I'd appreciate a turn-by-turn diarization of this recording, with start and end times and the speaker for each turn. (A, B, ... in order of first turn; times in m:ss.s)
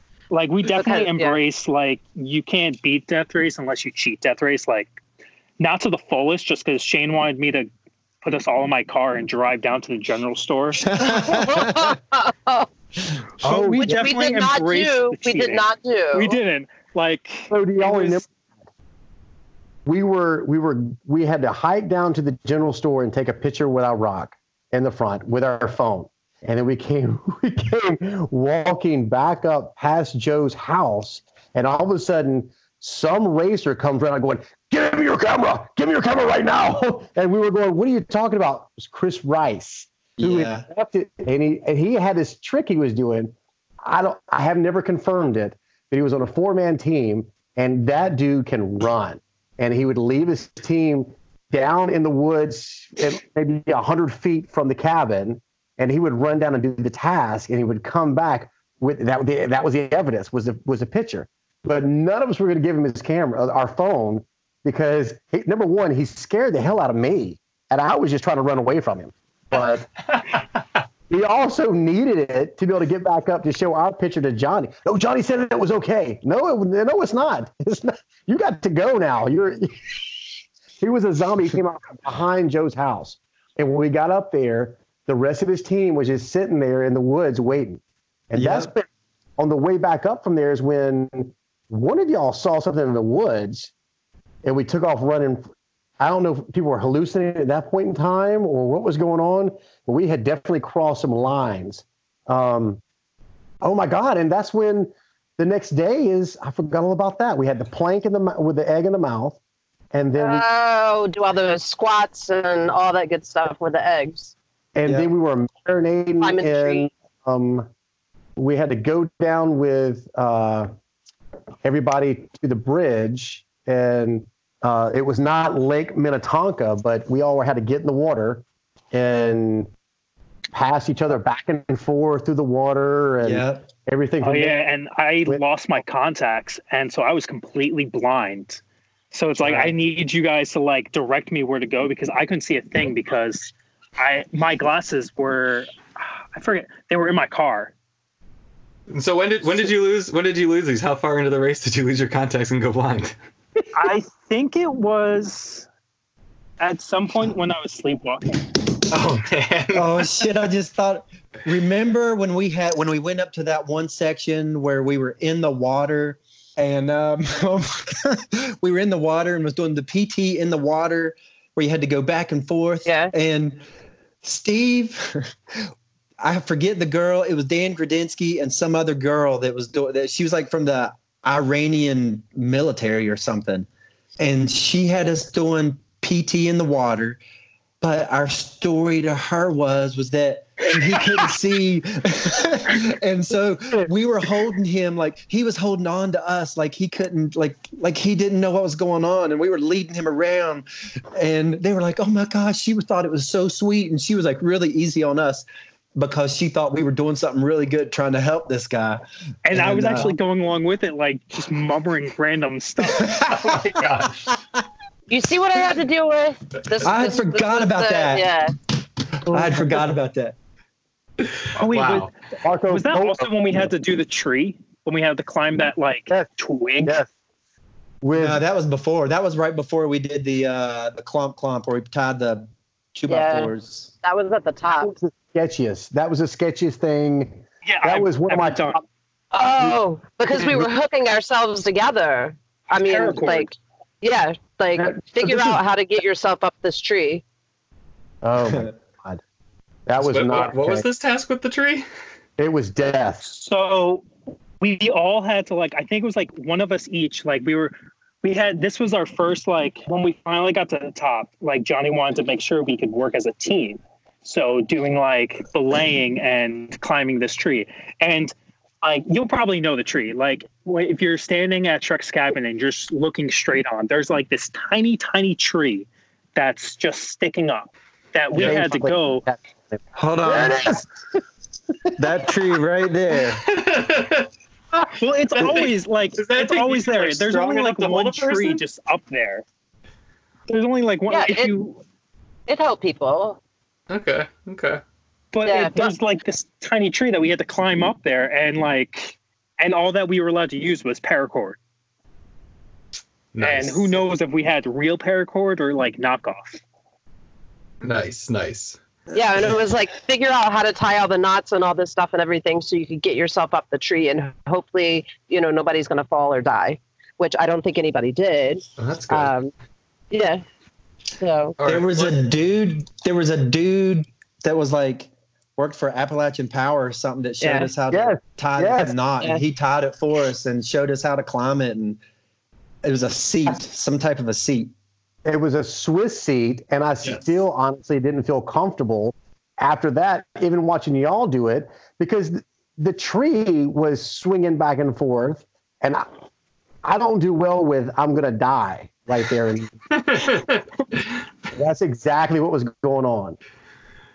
0:00.3-0:04.9 A
0:00.6-0:01.4 B
0:05.6-0:07.7 A
0:08.2-0:11.0 A
0:10.9-0:11.9 C
0:11.0-0:12.7 B
0:13.4-0:18.2 A
0:13.4-0:14.0 D
0:13.8-0:16.4 B
0:17.5-0:18.3 D
0:19.8-1:09.9 D
0:40.2-0:40.6 C
1:11.1-1:19.7 D
1:20.8-1:33.7 D
1:28.3-1:28.7 C
1:34.4-1:35.4 D
1:36.0-1:42.8 D
1:43.6-1:49.4 D
1:49.9-1:50.4 D
1:50.2-1:54.3 B
1:54.8-1:57.7 D
1:56.2-1:56.9 B
1:58.4-2:00.7 D
2:01.6-2:09.7 D
2:10.5-2:14.6 D
2:13.2-2:13.6 C
2:14.2-2:18.6 A
2:19.1-2:27.7 A
2:19.4-2:19.7 C
2:28.9-2:33.1 E
2:33.7-2:35.7 A
2:36.6-2:38.6 A
2:38.9-2:40.2 E
2:38.9-2:39.2 C
2:39.7-2:53.6 C
2:52.8-2:53.1 B
2:54.2-2:55.3 C
2:56.2-3:03.7 C
3:04.2-3:07.2 C
3:07.8-3:25.4 C
3:26.0-3:30.1 C
3:29.4-3:33.5 A
3:32.9-3:33.8 C
3:33.4-3:34.3 E
3:35.1-3:38.5 B
3:36.8-3:38.3 C
3:39.3-3:40.4 C
3:39.3-3:39.7 D
3:41.4-3:42.1 E
3:41.6-3:42.1 A
3:42.4-3:43.3 D
3:42.7-3:47.0 A
3:48.0-3:48.4 D
3:48.1-3:53.9 C
3:53.1-3:53.5 B
3:54.0-3:54.9 B
3:54.8-3:58.8 D
3:57.6-3:58.8 A
3:59.3-4:07.2 B
4:00.3-4:00.7 D
4:02.8-4:03.5 A
4:04.8-4:05.6 D
4:08.2-4:09.2 D
4:09.9-4:10.8 D
4:10.0-4:11.8 E
4:12.4-4:13.3 D
4:13.2-4:14.0 A
4:14.6-4:39.2 A
4:38.3-4:38.6 C
4:38.4-4:40.9 D
4:40.0-4:40.7 C
4:42.0-4:43.4 C
4:43.4-4:44.3 E
4:44.9-4:49.4 A
4:45.3-4:48.6 E
4:50.5-4:51.8 A
4:51.1-4:51.5 B
4:52.5-4:53.4 B
4:53.9-4:54.8 E
4:55.3-5:01.6 A
4:55.4-4:55.9 B
5:03.3-5:04.0 E
5:03.4-5:06.6 A
5:07.8-5:08.8 E
5:09.1-5:19.5 B
5:18.8-5:19.3 E
5:20.1-5:20.4 B
5:21.2-5:21.6 B
5:21.6-5:22.2 E
5:21.6-5:32.0 C
5:27.4-5:27.7 B
5:27.9-5:28.9 D
5:32.8-5:34.7 C
5:35.2-5:46.0 D
5:46.8-5:50.2 D
5:50.0-5:50.6 E
5:51.5-5:53.4 D